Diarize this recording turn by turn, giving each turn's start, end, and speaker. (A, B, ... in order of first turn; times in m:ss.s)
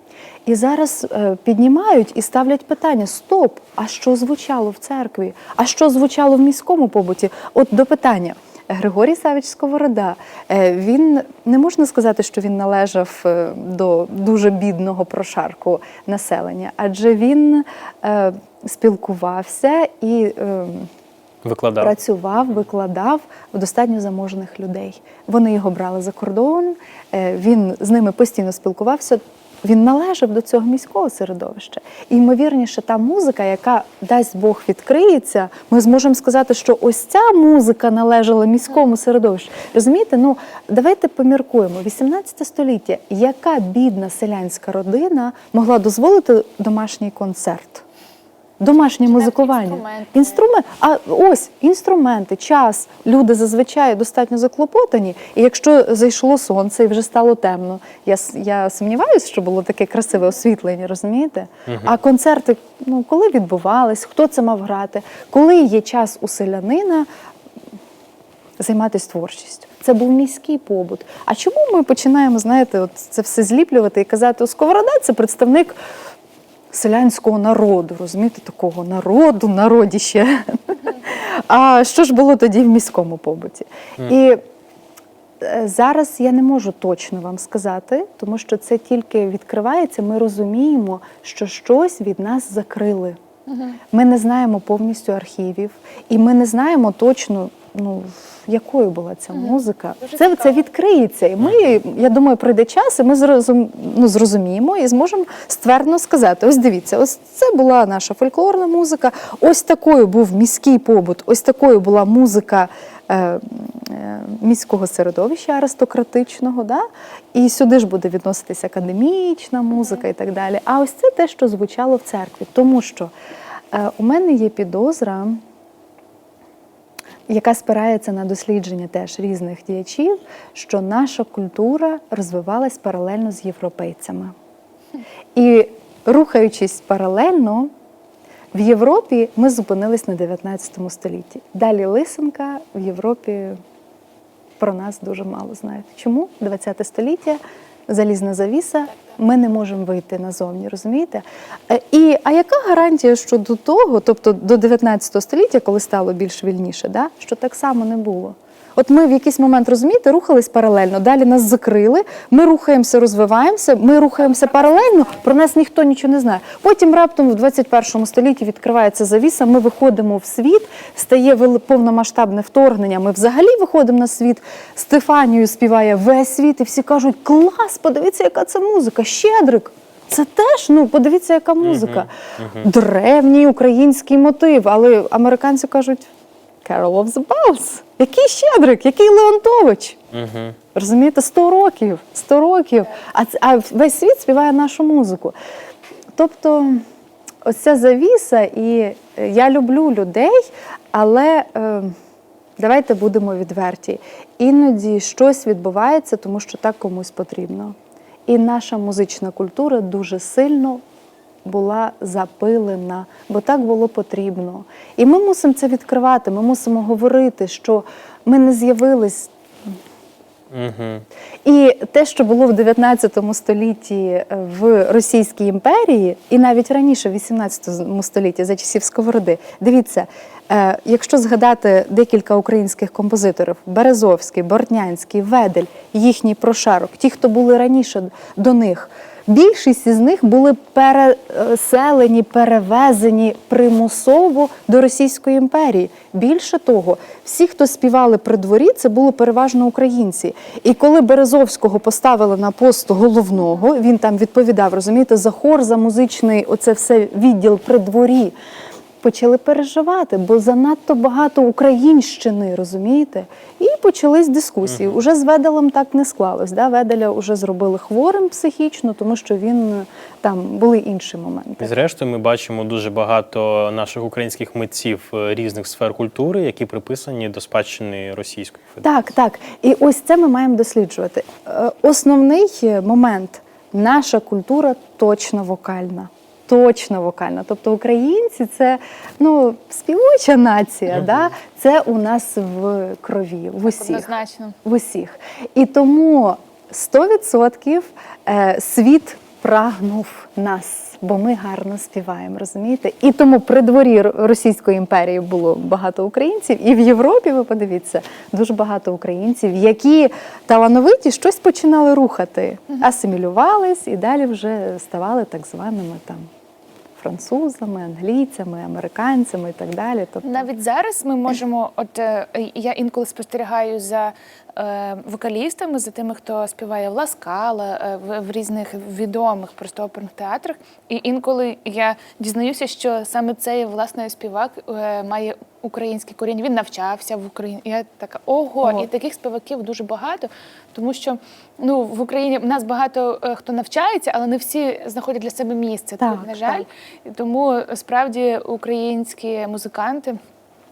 0:00.4-0:20.9 A
0:21.4-0:21.9 B
0:21.8-0:47.8 A
0:48.6-1:07.1 A
0:48.8-0:50.5 C
1:01.7-1:01.9 B
1:08.6-1:15.8 A
1:16.7-1:24.4 A
1:25.4-1:33.2 A
1:33.5-1:33.8 C
1:33.9-2:03.1 A
1:41.4-1:41.7 B
2:03.7-2:05.4 A
2:07.3-2:14.3 A
2:15.3-2:17.7 A
2:18.5-2:23.6 A
2:24.6-3:06.1 A
3:01.6-3:02.7 B
3:06.6-3:10.0 A
3:10.1-3:10.6 B
3:10.7-3:15.3 A
3:16.2-3:16.8 A
3:17.4-3:21.9 A
3:22.6-3:27.7 A
3:28.3-3:30.8 A
3:31.4-3:39.7 A
3:40.5-3:41.0 B
3:41.4-4:18.3 A
4:19.0-4:31.7 A
4:24.6-4:25.0 B
4:31.6-4:38.8 B
4:38.8-4:54.1 A
4:53.7-4:54.6 C
4:54.6-5:16.3 A
5:17.0-5:20.5 A
5:20.2-5:50.2 C
5:46.0-5:46.6 A